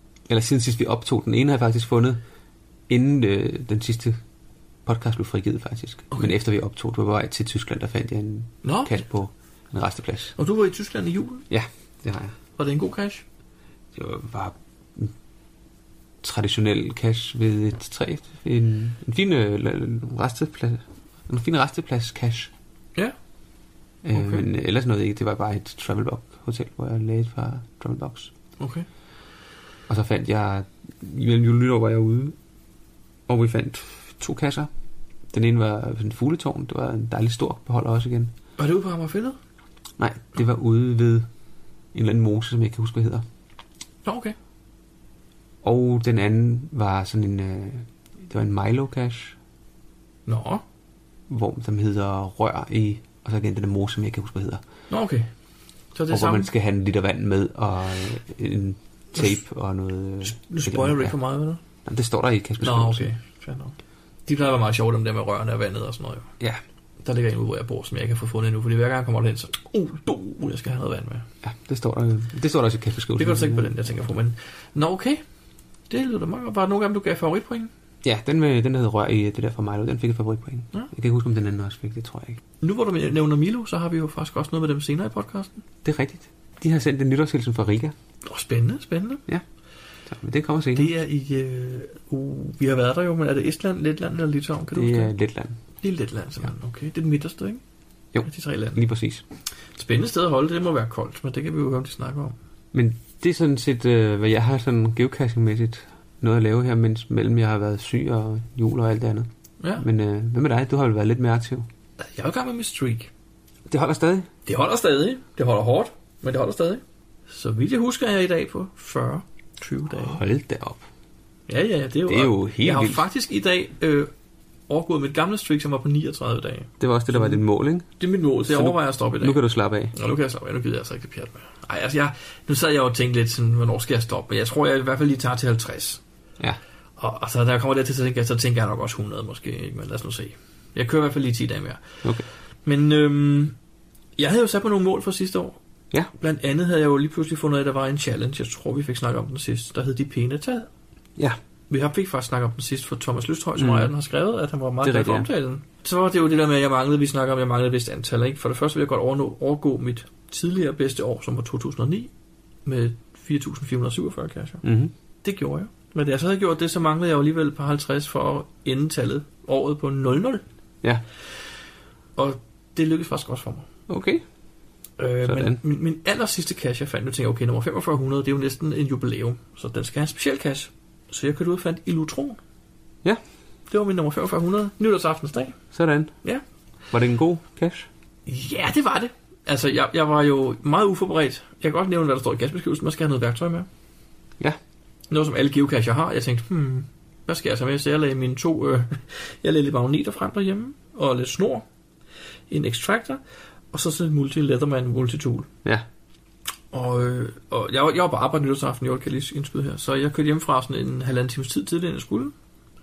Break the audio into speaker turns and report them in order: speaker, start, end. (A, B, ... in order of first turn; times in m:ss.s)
0:00.3-0:02.2 A
0:02.9-0:04.2 A
0:04.8-0:10.3 A
0:08.6-0:09.0 B
0:10.4-0:11.4 B
0:11.5-0:12.4 A
0:12.6-0:13.2 B
0:13.9-0:15.1 A
0:16.2-0:22.5 A
0:24.0-0:28.3 A
0:24.1-0:24.4 B
0:28.6-0:28.8 B
0:29.9-0:32.4 A
0:33.3-0:34.7 A
0:35.3-0:38.3 A
0:38.6-0:39.4 B
0:40.0-0:41.3 A
0:41.9-0:43.2 A
0:44.0-0:44.4 B
0:45.6-0:49.4 A
0:50.2-0:50.6 B
0:51.3-0:54.6 A
0:54.9-0:55.3 B
0:55.9-0:56.5 B
0:56.1-1:01.2 A
1:00.2-1:01.6 B
1:01.8-1:03.1 A
1:02.6-1:03.8 B
1:04.2-1:06.2 B
1:07.0-1:11.2 B
1:11.4-1:13.8 A
1:13.2-1:15.2 B
1:15.9-1:17.7 B
1:18.0-1:22.4 A
1:22.6-1:25.5 B
1:25.8-1:27.9 A
1:28.2-1:29.2 B
1:30.1-1:30.9 A
1:30.8-1:35.1 B
1:34.8-1:35.6 A
1:35.8-1:37.6 B
1:38.1-1:39.2 A
1:38.2-1:38.8 B
1:39.8-1:42.3 B
1:42.7-1:51.7 A
1:52.0-1:53.1 B
1:53.7-1:54.3 A
1:54.4-2:00.2 B
1:59.9-2:00.8 A
2:01.5-2:04.1 B
2:02.1-2:03.0 A
2:04.7-2:07.4 B
2:06.8-2:07.9 A
2:08.0-2:09.4 B
2:08.5-2:09.9 A
2:09.9-2:16.0 B
2:17.0-2:21.8 B
2:22.6-2:23.6 B
2:24.2-2:25.6 B
2:26.2-2:30.7 B
2:31.7-2:42.1 B
2:33.6-2:33.9 A
2:34.8-2:35.3 A
2:42.6-2:44.6 B
2:44.6-2:44.9 A
2:45.2-2:50.4 B
2:52.2-2:53.6 B
2:53.9-2:54.2 A
2:55.0-3:02.4 B
2:55.2-2:55.6 A
3:03.7-3:05.6 B
3:05.7-3:06.1 A
3:06.9-3:07.9 A
3:08.2-3:13.7 B
3:15.1-3:21.6 B
3:22.5-3:23.2 B
3:23.7-3:25.5 B
3:26.7-3:32.3 B